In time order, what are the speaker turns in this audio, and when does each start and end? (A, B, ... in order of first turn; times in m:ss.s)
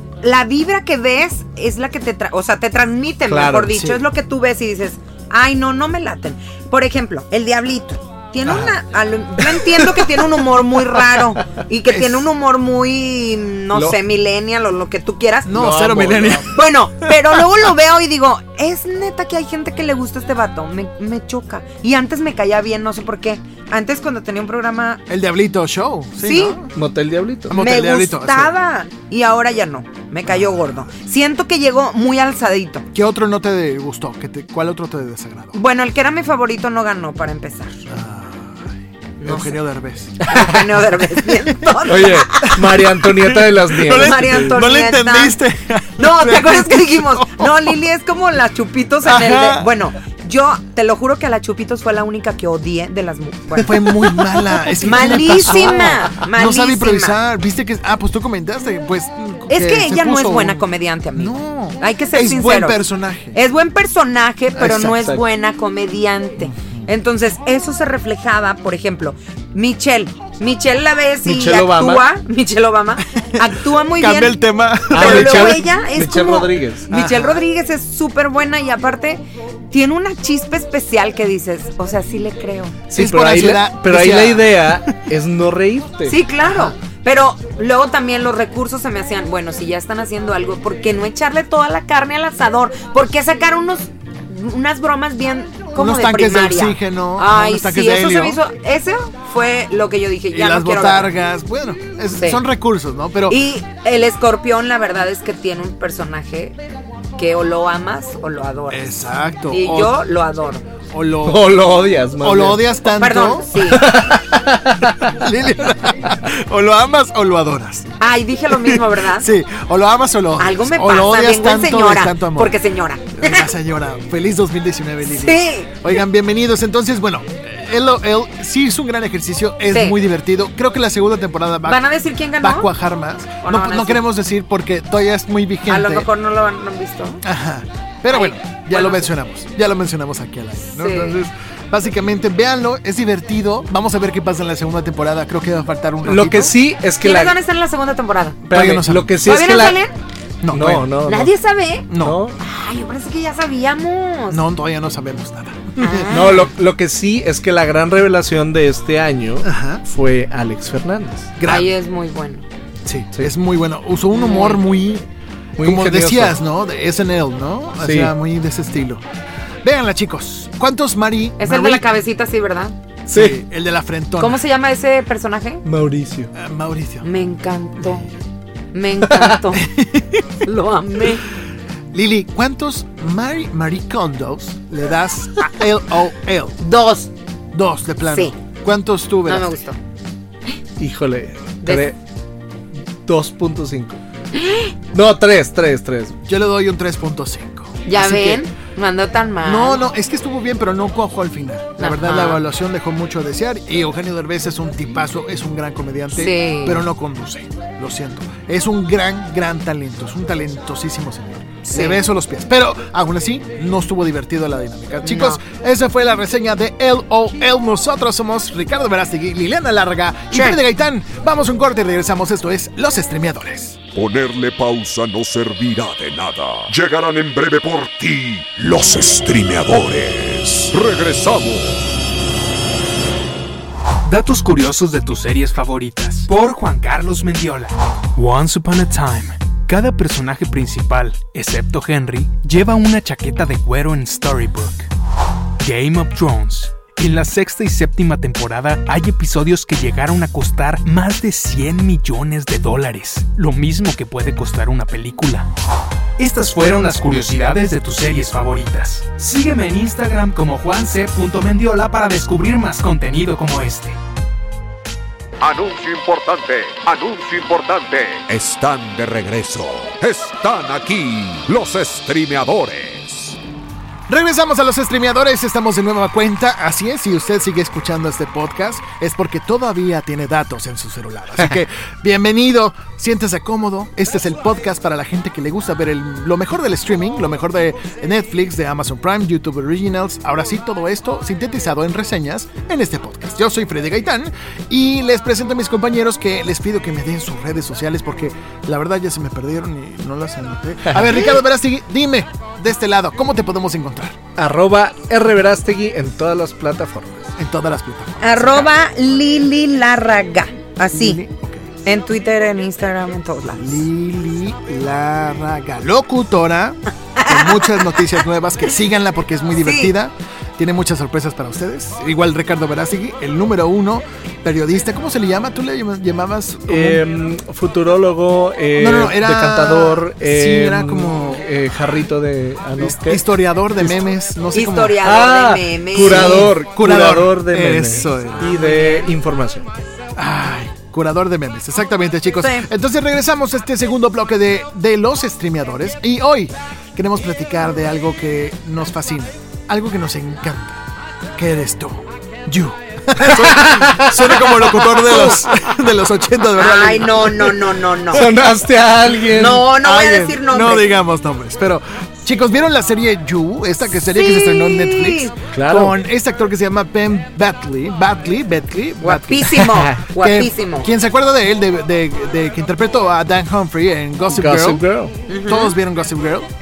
0:00.2-0:15.6 A
0:03.3-0:03.8 B
0:03.7-0:04.0 C
0:08.4-0:08.8 C
0:11.9-0:12.2 C
0:13.7-0:14.0 B
0:15.4-0:16.6 C
0:15.5-0:16.5 B
0:16.5-0:25.0 A
0:25.1-0:26.7 C
0:26.2-0:26.6 A
0:26.7-0:27.6 B
0:27.5-0:28.5 C
0:27.5-0:32.8 A
0:30.3-0:30.6 C
0:32.9-0:35.6 C
0:35.5-0:37.8 A
0:37.9-0:40.2 C
0:39.2-0:39.6 A
0:40.2-0:40.6 B
0:40.3-0:42.6 A
0:41.2-0:47.7 C
0:41.8-0:44.6 B
0:43.9-0:45.4 A
0:46.0-0:54.1 A
0:49.0-0:49.7 C
0:53.5-1:00.6 C
0:54.8-0:57.2 A
0:55.3-0:55.9 B
0:59.5-1:14.4 A
1:01.2-1:03.4 C
1:04.6-1:05.2 B
1:06.4-1:06.8 C
1:11.2-1:12.0 B
1:13.8-1:15.6 C
1:14.9-1:22.8 A
1:14.9-1:16.9 B
1:16.9-1:17.4 C
1:22.9-1:26.2 B
1:22.9-1:25.0 C
1:26.0-1:41.1 A
1:26.4-1:26.7 C
1:35.7-1:38.4 C
1:40.3-1:43.4 C
1:42.1-1:42.4 A
1:43.3-1:46.6 A
1:47.2-1:50.6 A
1:48.7-1:50.0 C
1:50.9-1:51.5 C
1:51.2-1:52.7 B
1:52.2-1:54.2 C
1:53.0-1:53.9 A
1:53.6-1:55.2 B
1:55.0-2:02.6 C
1:58.0-1:59.3 A
2:00.4-2:03.5 A
2:03.2-2:11.9 C
2:05.1-2:05.7 A
2:11.6-2:12.7 A
2:12.4-2:16.1 C
2:13.4-2:14.0 A
2:15.7-2:17.2 A
2:17.2-2:26.5 C
2:18.1-2:19.0 A
2:20.7-2:21.2 A
2:26.0-2:27.4 B
2:27.0-2:28.4 A
2:28.5-2:29.1 C
2:28.5-2:29.8 B
2:29.2-2:29.9 A
2:30.4-2:30.9 C
2:30.5-2:31.3 B
2:31.1-2:31.9 A
2:31.9-2:32.2 C
2:32.0-2:32.4 B
2:32.4-2:34.4 A
2:34.3-2:36.4 C
2:35.8-2:36.5 A
2:36.1-2:41.3 B
2:39.4-2:39.8 C
2:41.4-2:41.7 C
2:41.4-2:42.4 A
2:42.8-2:45.0 C
2:44.1-2:44.6 A
2:45.6-2:46.4 B
2:45.6-2:49.0 C
2:47.8-2:48.1 B
2:49.6-2:51.8 C
2:51.4-2:52.8 A
2:53.1-2:54.4 C
2:53.1-2:53.4 B
2:54.2-2:55.6 A
2:55.6-2:56.3 B
2:56.3-2:57.1 C
2:57.0-2:58.1 A
2:58.7-2:59.7 A
2:59.1-2:59.4 B
2:59.5-3:00.4 C
3:00.4-3:01.3 A
3:01.9-3:06.6 C
3:06.6-3:07.1 A
3:07.5-3:09.6 C
3:08.1-3:08.3 A
3:09.3-3:09.8 A
3:10.8-3:12.0 B
3:11.6-3:11.9 A
3:13.0-3:14.0 B
3:14.3-3:14.7 A
3:14.9-3:16.1 B
3:16.2-3:18.4 C
3:17.8-3:19.8 A
3:19.4-3:43.8 C
3:21.8-3:22.4 A
3:26.1-3:26.8 A
3:31.7-3:32.0 A
3:35.0-3:35.4 A
3:40.3-3:40.6 A
3:43.9-3:51.9 D
3:54.0-4:04.9 E
4:05.6-4:15.5 E
4:16.2-4:24.0 E
4:25.4-4:33.4 D
4:34.1-5:04.2 C
5:04.4-5:07.3 B
5:07.4-5:08.7 C
5:08.2-5:11.2 A
5:10.9-5:11.7 C
5:11.8-5:13.8 A
5:13.5-5:27.0 C
5:17.2-5:18.0 A
5:19.6-5:19.9 A
5:26.7-5:33.2 B
5:28.8-5:31.4 C
5:32.8-5:35.0 C
5:34.5-5:36.5 A
5:35.0-5:39.7 B
5:36.0-5:38.4 C
5:38.4-5:39.1 A
5:40.2-5:50.8 C
5:42.4-5:42.7 A
5:51.4-5:57.7 C
5:53.2-5:55.7 B
5:56.6-5:58.3 A
5:58.1-5:59.7 B
5:59.3-6:01.0 A
5:59.8-6:14.8 C
6:04.0-6:05.3 A
6:05.5-6:06.0 B
6:09.0-6:10.9 A
6:09.5-6:10.0 B
6:14.3-6:15.1 B
6:15.3-6:15.7 A
6:15.4-6:16.5 C